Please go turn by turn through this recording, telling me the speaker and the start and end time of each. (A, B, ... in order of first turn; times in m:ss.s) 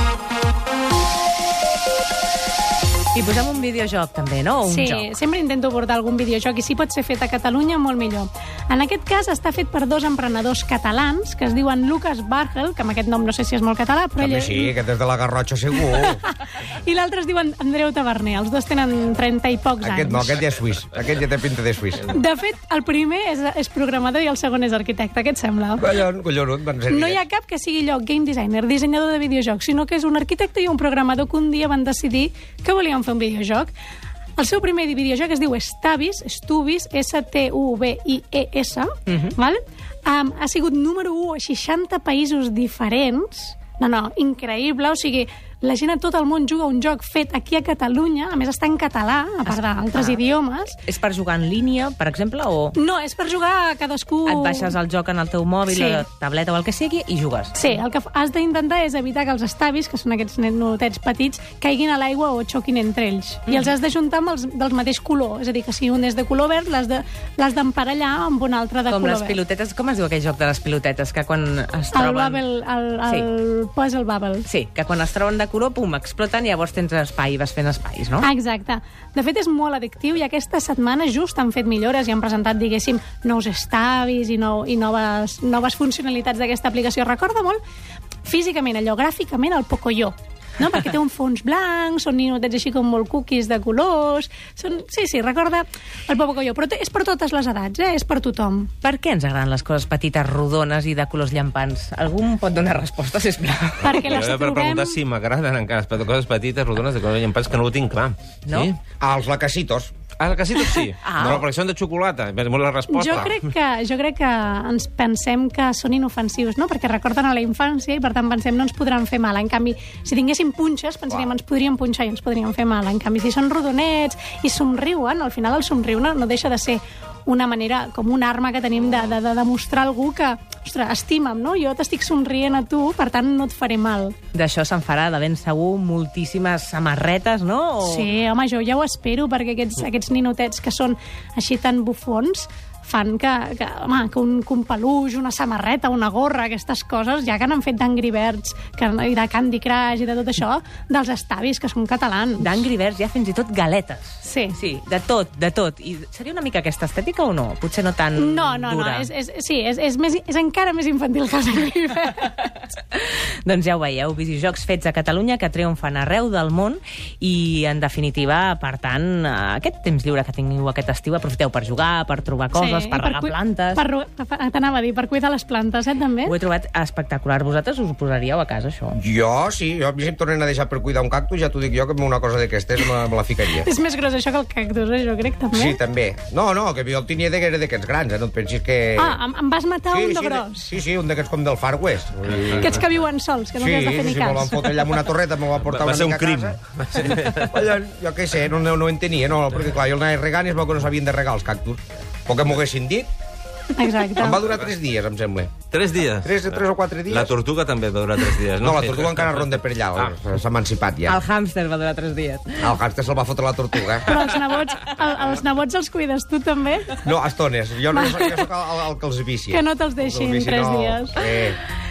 0:03.1-0:05.1 A
0:04.6-0:14.7 B
0:14.2-0:16.2 C
0:15.8-0:20.4 B
0:19.8-0:22.2 C
0:22.1-0:25.8 B
0:25.8-0:27.2 C
0:26.9-0:33.7 B
0:34.4-0:50.8 B
0:39.1-0:39.3 A
0:49.5-0:50.2 A
0:50.8-0:52.8 A
0:52.8-0:54.8 B
0:54.3-0:57.8 A
0:55.7-0:56.0 B
0:57.5-1:09.4 B
1:03.5-1:03.7 A
1:08.9-1:12.4 A
1:11.9-1:14.4 B
1:14.4-1:18.3 A
1:18.2-1:27.6 B
1:28.2-1:38.7 B
1:38.8-1:44.2 A
1:43.8-1:45.0 B
1:43.8-1:48.8 D
1:48.4-1:48.7 A
1:49.0-1:49.9 C
1:50.2-1:53.4 D
1:51.0-1:51.4 A
1:52.9-2:14.2 B
2:14.3-2:18.1 A
2:17.8-2:32.6 B
2:32.4-2:39.1 A
2:34.2-2:34.6 B
2:38.2-2:42.3 B
2:42.2-2:53.8 A
2:52.5-2:56.3 B
2:56.2-2:59.0 A
2:59.0-3:03.7 C
3:03.6-3:05.8 B
3:05.5-3:09.2 C
3:09.0-3:10.7 B
3:09.9-3:12.8 C
3:12.6-3:14.9 B
3:13.6-3:16.6 C
3:15.7-3:17.5 D
3:17.5-3:23.1 C
3:23.7-3:24.4 B
3:24.2-3:25.5 C
3:25.7-3:30.1 D
3:26.2-3:27.3 C
3:28.6-3:31.2 C
3:31.0-3:32.7 A
3:32.6-3:34.2 C
3:34.0-3:37.0 B
3:37.0-3:41.6 C
3:37.9-3:38.4 B
3:39.5-3:41.2 B